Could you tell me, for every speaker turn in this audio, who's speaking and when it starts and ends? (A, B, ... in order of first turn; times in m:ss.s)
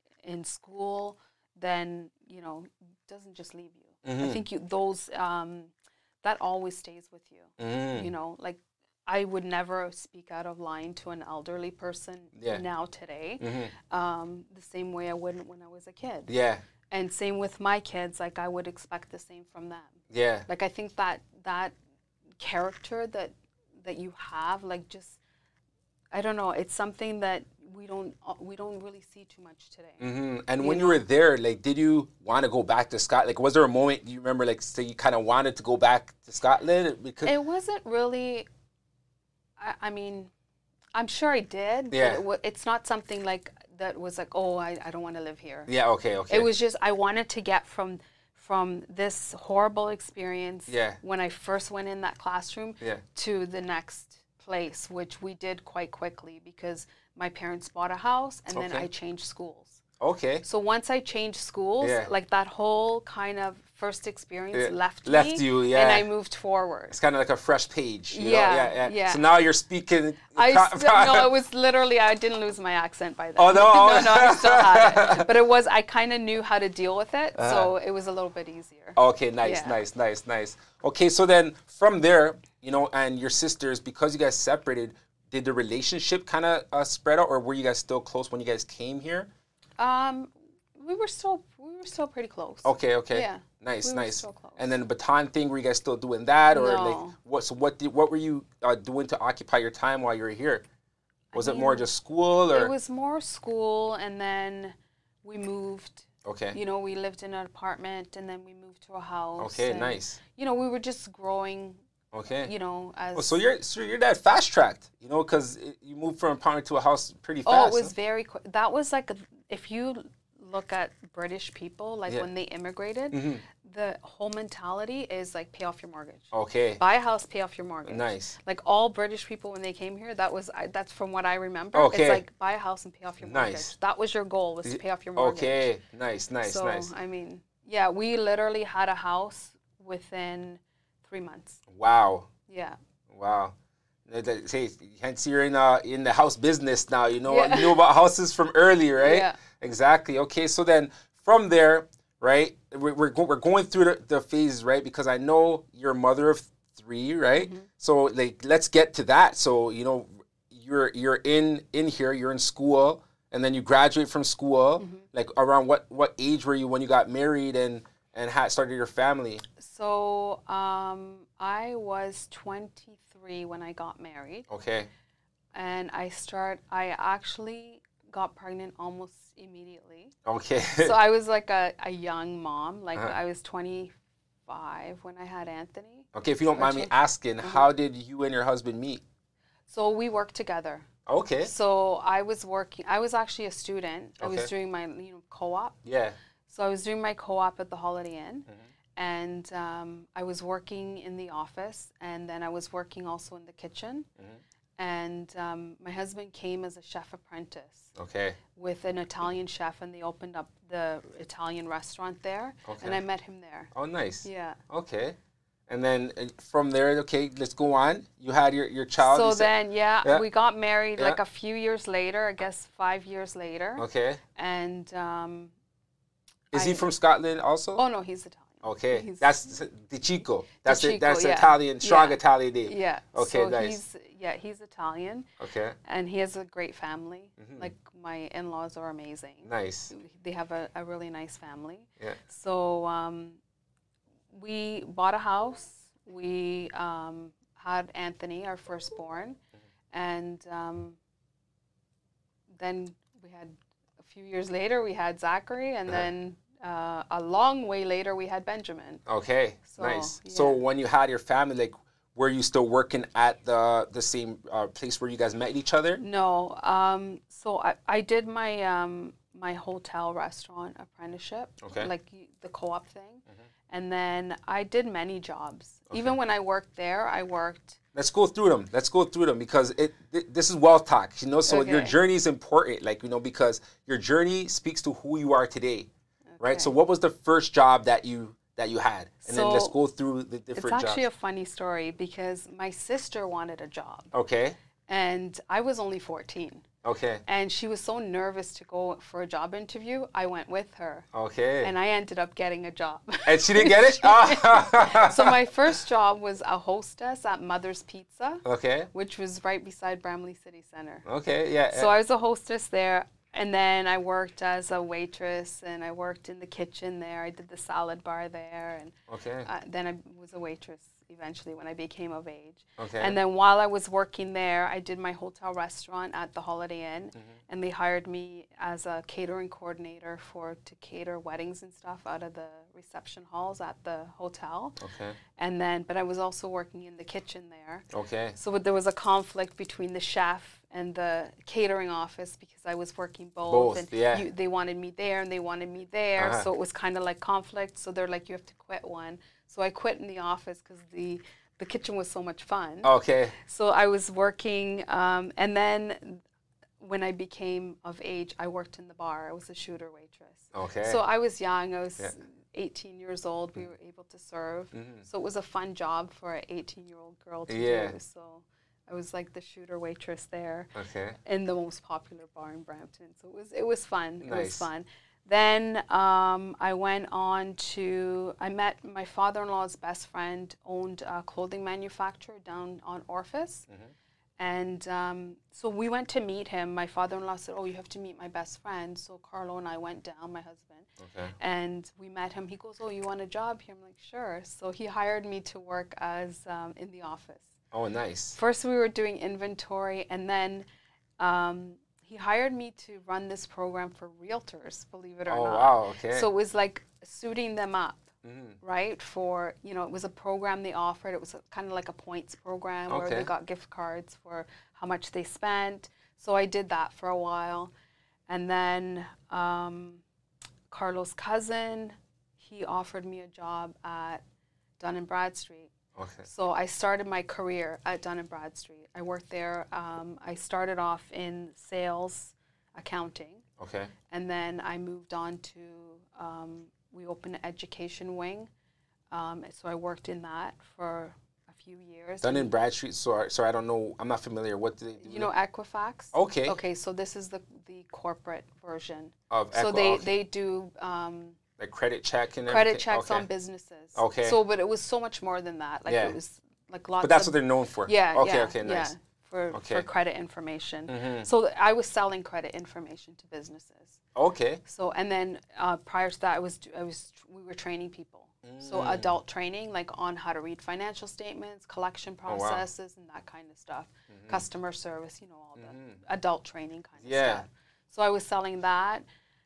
0:00.2-0:16.3 A
0:04.0-0:04.4 B
0:07.6-0:08.1 B
0:12.4-0:12.6 B
0:13.4-0:13.7 B
0:16.3-0:16.6 B
0:16.9-0:21.8 A
0:20.1-0:20.5 B
0:22.4-0:25.2 A
0:26.1-0:30.1 A
0:30.0-0:37.3 B
0:30.6-0:31.0 A
0:37.2-0:38.5 A
0:39.6-0:40.3 A
0:41.0-0:45.7 A
0:41.9-0:42.2 B
0:45.7-0:46.5 B
0:46.3-0:59.8 A
0:50.7-0:51.0 B
0:58.5-0:58.9 B
1:00.0-1:00.4 B
1:00.4-1:07.0 A
1:01.8-1:02.1 B
1:04.5-1:06.1 B
1:06.9-1:11.3 B
1:08.1-1:09.2 A
1:10.4-1:19.8 A
1:13.4-1:15.3 B
1:17.4-1:17.7 B
1:19.0-1:29.3 B
1:29.8-1:34.8 A
1:32.6-1:40.6 B
1:36.5-1:37.2 A
1:41.3-1:41.9 A
1:41.4-1:42.7 B
1:42.5-1:51.8 A
1:46.2-1:46.6 B
1:49.4-1:50.2 B
1:52.1-1:52.5 B
1:52.4-1:53.4 A
1:53.1-1:57.9 B
1:57.5-2:15.7 A
2:03.1-2:03.4 B
2:06.3-2:06.8 B
2:07.9-2:08.4 B
2:11.8-2:12.2 B
2:13.2-2:13.7 B
2:14.6-2:16.9 B
2:16.4-2:21.6 A
2:21.7-2:22.3 B
2:22.5-2:22.8 A
2:23.1-2:23.5 B
2:24.1-2:49.4 B
2:27.2-2:27.8 A
2:29.0-2:29.4 A
2:37.4-2:37.7 A
2:44.8-2:45.1 A
2:49.6-2:54.5 A
2:54.5-2:54.9 B
2:55.5-3:00.1 A
3:00.2-3:01.0 B
3:00.8-3:03.9 A
3:04.5-3:07.7 A
3:06.1-3:09.0 B
3:09.7-3:10.9 A
3:11.1-3:11.5 B
3:11.4-3:15.8 A
3:14.2-3:14.5 B
3:15.8-3:16.2 B
3:16.5-3:24.1 A
3:24.8-3:27.9 A
3:28.0-3:28.4 B
3:28.6-3:33.7 A
3:32.7-3:33.0 B
3:33.7-3:35.2 B
3:34.2-3:34.6 A
3:35.7-3:39.5 B
3:39.0-3:45.5 A
3:43.8-3:44.2 B
3:46.5-3:47.8 B
3:46.5-3:46.9 A
3:47.8-3:49.3 A
3:48.6-3:53.8 B
3:50.6-3:55.3 A
3:55.4-3:55.8 B
3:55.8-4:03.4 A
3:57.4-3:57.7 B
3:59.4-3:59.9 B
4:04.3-4:09.4 A
4:09.9-4:11.0 A
4:12.6-4:19.0 A
4:19.1-4:26.0 B
4:19.7-4:20.6 A
4:26.0-4:37.8 A
4:31.6-4:31.9 B
4:38.0-4:45.9 B
4:41.5-4:42.0 A
4:46.3-4:46.7 A
4:46.4-4:51.0 B
4:49.2-4:49.8 A
4:50.6-4:54.1 A
4:54.1-4:54.6 B
4:54.9-4:56.6 A
4:56.8-4:57.2 B
4:57.2-5:01.1 A
5:01.1-5:01.7 B
5:01.6-5:11.1 A
5:03.2-5:05.7 B
5:08.4-5:08.9 B
5:11.0-5:11.9 B
5:11.7-5:34.8 A
5:19.1-5:19.5 B
5:22.8-5:23.2 B
5:34.8-5:35.2 B
5:35.4-5:56.2 A
5:37.9-5:38.4 B
5:43.5-5:44.2 B
5:46.2-5:46.5 B
5:52.8-5:53.4 B
5:56.8-6:23.7 A
6:00.5-6:01.0 B
6:04.7-6:05.0 B
6:07.5-6:07.9 B
6:10.8-6:11.2 B
6:14.2-6:14.7 B
6:24.4-6:37.5 A
6:31.0-6:31.3 B
6:37.7-6:38.4 B
6:38.4-6:40.7 A
6:41.2-6:48.1 A
6:45.3-6:46.3 B
6:48.2-6:48.6 B
6:48.6-6:57.7 A
6:52.9-6:53.3 B
6:58.3-7:00.0 A
7:00.7-7:04.2 A
7:04.8-7:05.7 A
7:06.0-7:06.3 B
7:06.2-7:13.4 A
7:13.6-7:13.9 B
7:14.1-7:18.5 A
7:19.1-7:22.5 A
7:22.2-7:25.3 B
7:25.0-7:31.4 A
7:26.1-7:26.6 B
7:29.3-7:30.1 B
7:31.6-7:33.3 B
7:32.5-7:44.0 A
7:33.9-7:34.4 B
7:35.9-7:36.2 B
7:37.0-7:38.9 B
7:39.5-7:39.8 B
7:40.9-7:41.3 B
7:44.1-7:44.6 B
7:44.6-7:59.0 A
7:48.4-7:49.1 B
7:52.3-7:52.6 B
7:54.1-7:54.4 B
7:55.6-7:56.0 B
7:57.0-7:57.4 B